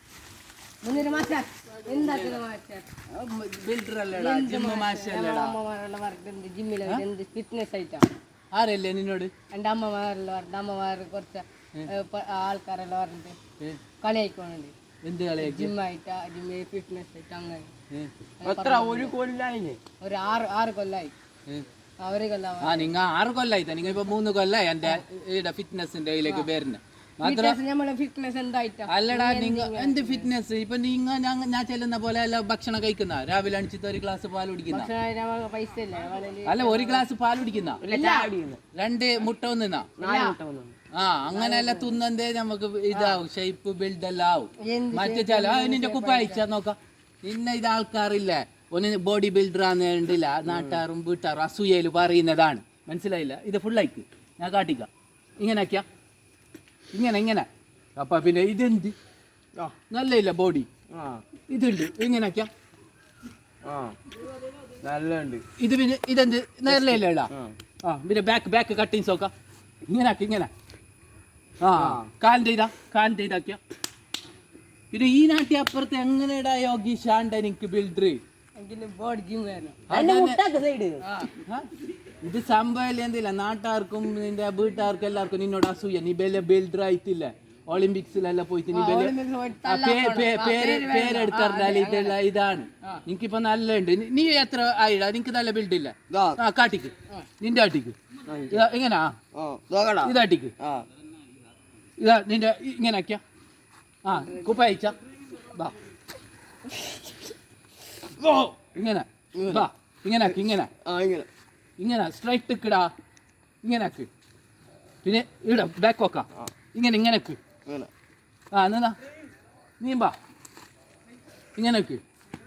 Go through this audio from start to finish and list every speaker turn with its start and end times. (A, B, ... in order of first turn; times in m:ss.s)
0:00.8-0:02.9 A
0:03.1-0:05.6 B
0:04.1-0:08.1 A
0:08.5-0:09.3 B
0:09.5-0:13.4 A
0:14.0-0:14.7 A
0:15.0-0:15.7 B
0:15.4-0:17.7 A
0:18.4-0:19.1 A
0:18.4-0:19.8 C
0:20.0-0:21.1 A
0:22.0-0:22.9 A
0:22.6-0:27.6 B
0:27.2-0:30.3 A
0:28.9-0:34.9 B
0:34.7-0:37.0 A
0:36.4-0:37.8 B
0:37.8-0:38.6 C
0:37.9-0:38.3 A
0:38.7-0:39.9 B
0:40.0-0:40.7 C
0:40.0-0:40.4 A
0:40.9-0:54.9 B
0:41.3-0:42.0 A
0:44.6-0:46.4 A
0:50.5-0:50.8 C
0:55.4-0:55.8 B
0:56.9-0:58.9 B
0:59.9-1:00.7 B
1:00.9-1:01.2 C
1:01.5-1:02.5 B
1:03.6-1:03.9 C
1:04.8-1:05.4 C
1:05.6-1:07.3 B
1:06.7-1:07.5 C
1:07.8-1:09.3 B
1:09.9-1:10.5 B
1:11.6-1:13.6 B
1:11.8-1:12.1 C
1:14.9-1:18.2 B
1:18.6-1:19.8 A
1:19.9-1:20.4 B
1:19.9-1:21.0 C
1:21.0-1:21.3 A
1:21.4-1:21.7 B
1:22.2-1:38.0 B
1:28.7-1:32.2 A
1:36.1-1:36.4 C
1:38.3-1:38.6 C
1:38.5-1:39.1 B
1:39.3-1:40.8 C
1:40.0-1:40.5 B
1:42.0-1:43.2 B
1:44.0-1:45.7 B
1:48.2-1:48.5 C
1:48.6-1:50.7 B
1:49.3-1:49.7 C
1:50.3-1:51.3 C
1:51.8-1:52.9 B
1:53.6-1:54.1 B
1:55.0-1:57.4 B
1:58.5-1:59.0 B
1:59.8-2:00.1 B
2:01.6-2:02.0 B